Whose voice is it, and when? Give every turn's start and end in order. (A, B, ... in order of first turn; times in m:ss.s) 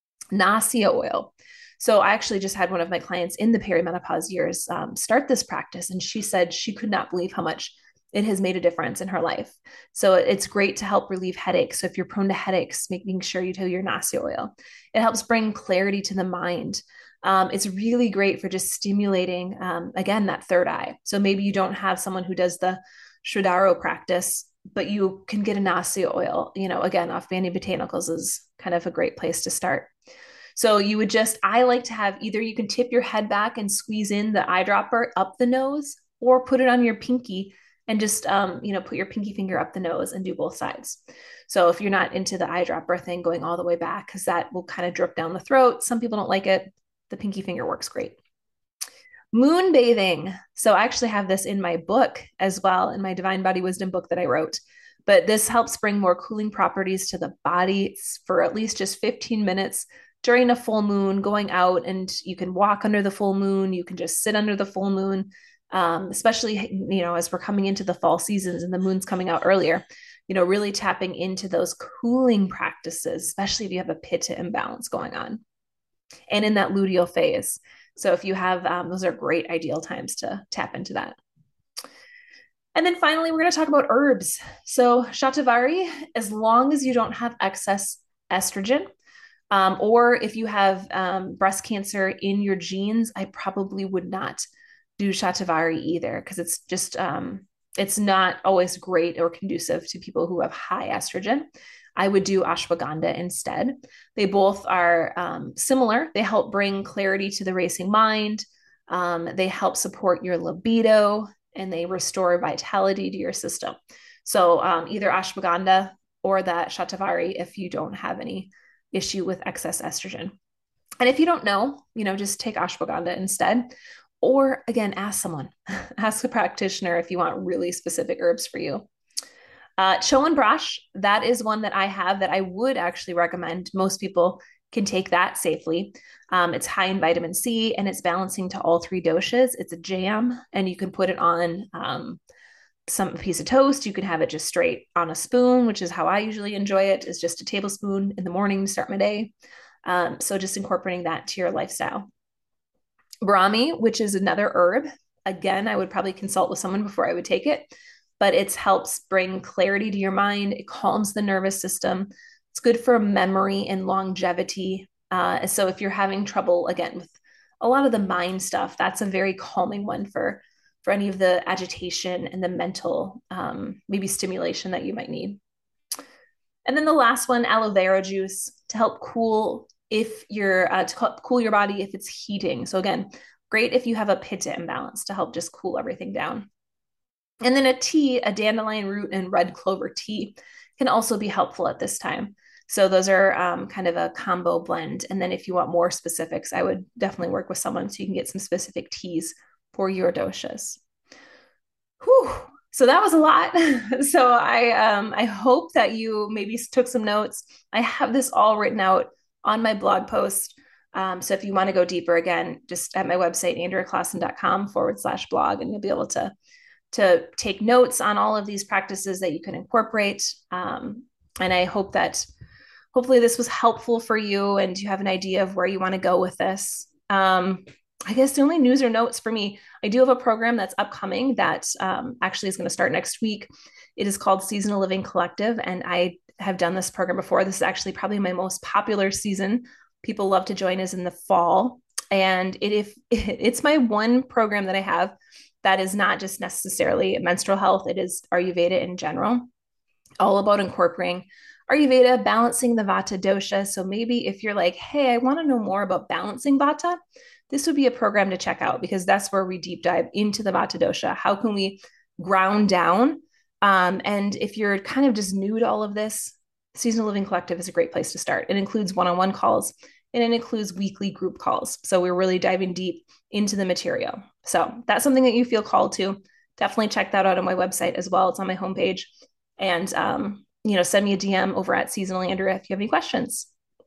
0:00.3-0:29.9 A
0:30.5-0:48.2 A
0:49.3-1:15.4 A
1:16.3-1:21.2 A
1:22.7-1:28.9 A
1:29.5-1:34.4 A
1:35.0-1:41.4 A
1:42.0-2:00.3 A
2:01.0-2:08.9 A
2:09.8-2:22.2 A
2:22.9-2:29.3 A
2:29.9-2:32.1 A
2:33.2-2:55.4 A
2:56.6-3:06.5 A
3:07.4-3:20.8 A
3:22.0-3:36.3 A
3:36.9-3:42.3 A
3:42.9-4:09.5 A
4:10.2-4:17.0 A
4:17.5-4:43.5 A